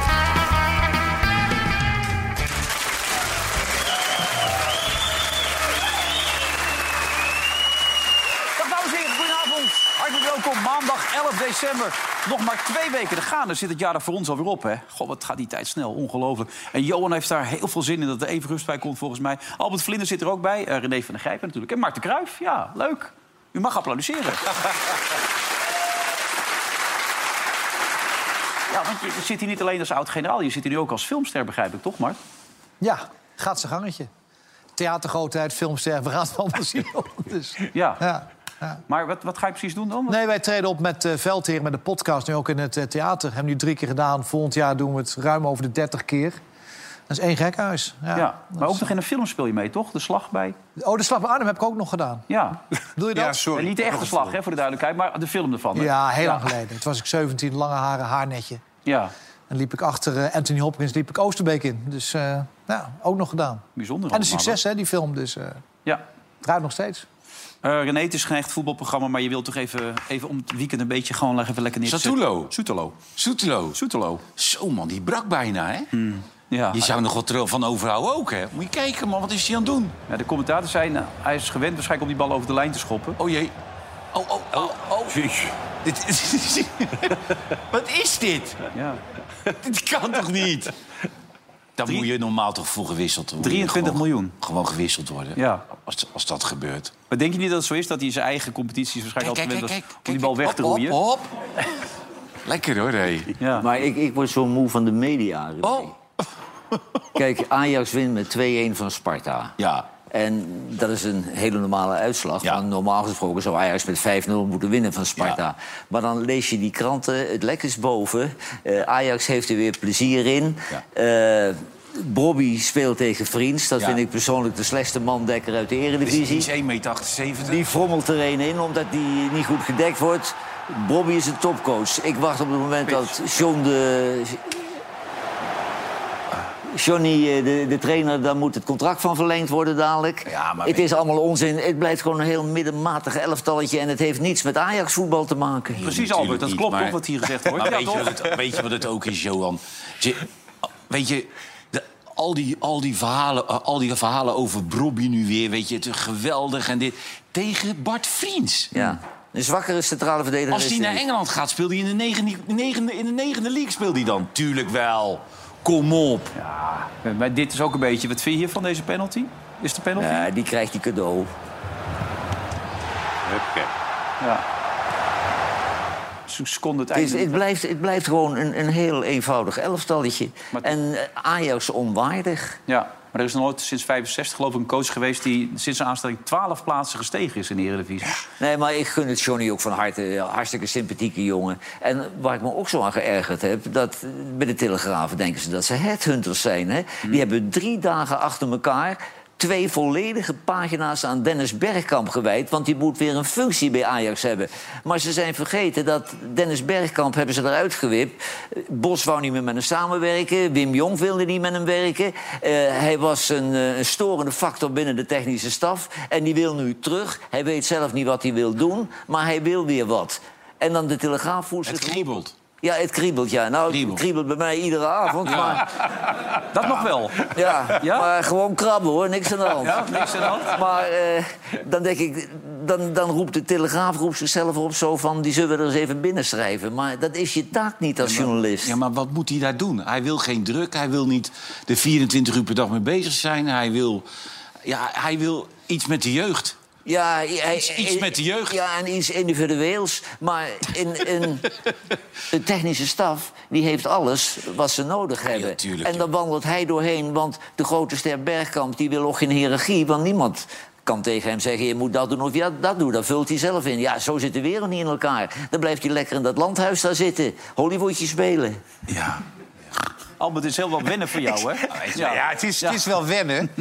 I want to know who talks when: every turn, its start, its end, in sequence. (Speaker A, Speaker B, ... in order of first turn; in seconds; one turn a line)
Speaker A: 8.6-24.7
Speaker A: 28.7-32.2
Speaker B: 32.8-34.1
Speaker B: 34.8-38.8
Speaker A: 37.7-38.0
Speaker A: 38.9-40.2
Speaker B: 40.1-46.4
Speaker B: 47.1-48.9
Speaker A: 48.1-50.5
Speaker B: 50.8-52.2
Speaker A: 52.3-52.6
Speaker B: 53.0-53.4
Speaker C: 53.1-54.4
Speaker A: 53.4-56.5
Speaker B: 55.7-58.6
Speaker A: 58.9-59.1
Speaker B: 59.5-65.6
Speaker A: 63.8-64.6
Speaker B: 66.4-67.0
Speaker A: 67.6-73.0
Speaker D: 71.8-73.8
Speaker A: 73.7-74.2
Speaker D: 74.4-75.9
Speaker A: 75.9-76.9
Speaker D: 76.7-80.0
Speaker A: 80.1-83.2
Speaker D: 83.2-83.5
Speaker D: 84.1-85.2
Speaker C: 85.1-85.5
Speaker D: 85.8-88.6
Speaker A: 88.7-89.0
Speaker D: 89.5-90.7
Speaker D: 91.8-97.0
Speaker A: 93.4-94.3
Speaker A: 95.3-95.6
Speaker A: 97.1-101.0
Speaker D: 99.2-101.4
Speaker D: 102.5-103.4
Speaker A: 103.4-103.7
Speaker E: 103.5-105.9
Speaker D: 105.6-106.0
Speaker E: 107.2-126.5
Speaker D: 109.6-109.9
Speaker D: 126.0-127.8
Speaker E: 127.4-134.6
Speaker D: 132.9-133.1
Speaker E: 136.7-145.9
Speaker D: 140.3-140.9
Speaker A: 145.8-148.4
Speaker D: 145.8-150.3
Speaker D: 150.8-159.0
Speaker E: 158.7-161.0
Speaker D: 160.5-166.3
Speaker A: 167.0-170.3
Speaker E: 170.0-171.3
Speaker C: 173.2-173.7
Speaker A: 176.3-177.4
Speaker E: 176.9-182.6
Speaker A: 182.7-188.2
Speaker E: 188.4-222.1
Speaker D: 221.7-222.3
Speaker E: 222.6-225.7
Speaker D: 223.7-224.0
Speaker D: 225.2-225.6
Speaker A: 226.5-228.1
Speaker E: 227.3-238.7
Speaker A: 229.6-230.6
Speaker D: 238.0-244.1
Speaker D: 244.6-246.6
Speaker E: 246.8-251.4
Speaker D: 247.5-248.6
Speaker E: 252.3-268.6
Speaker D: 255.3-256.1
Speaker D: 268.9-269.2
Speaker A: 270.2-272.8
Speaker D: 271.7-272.0
Speaker C: 271.9-273.5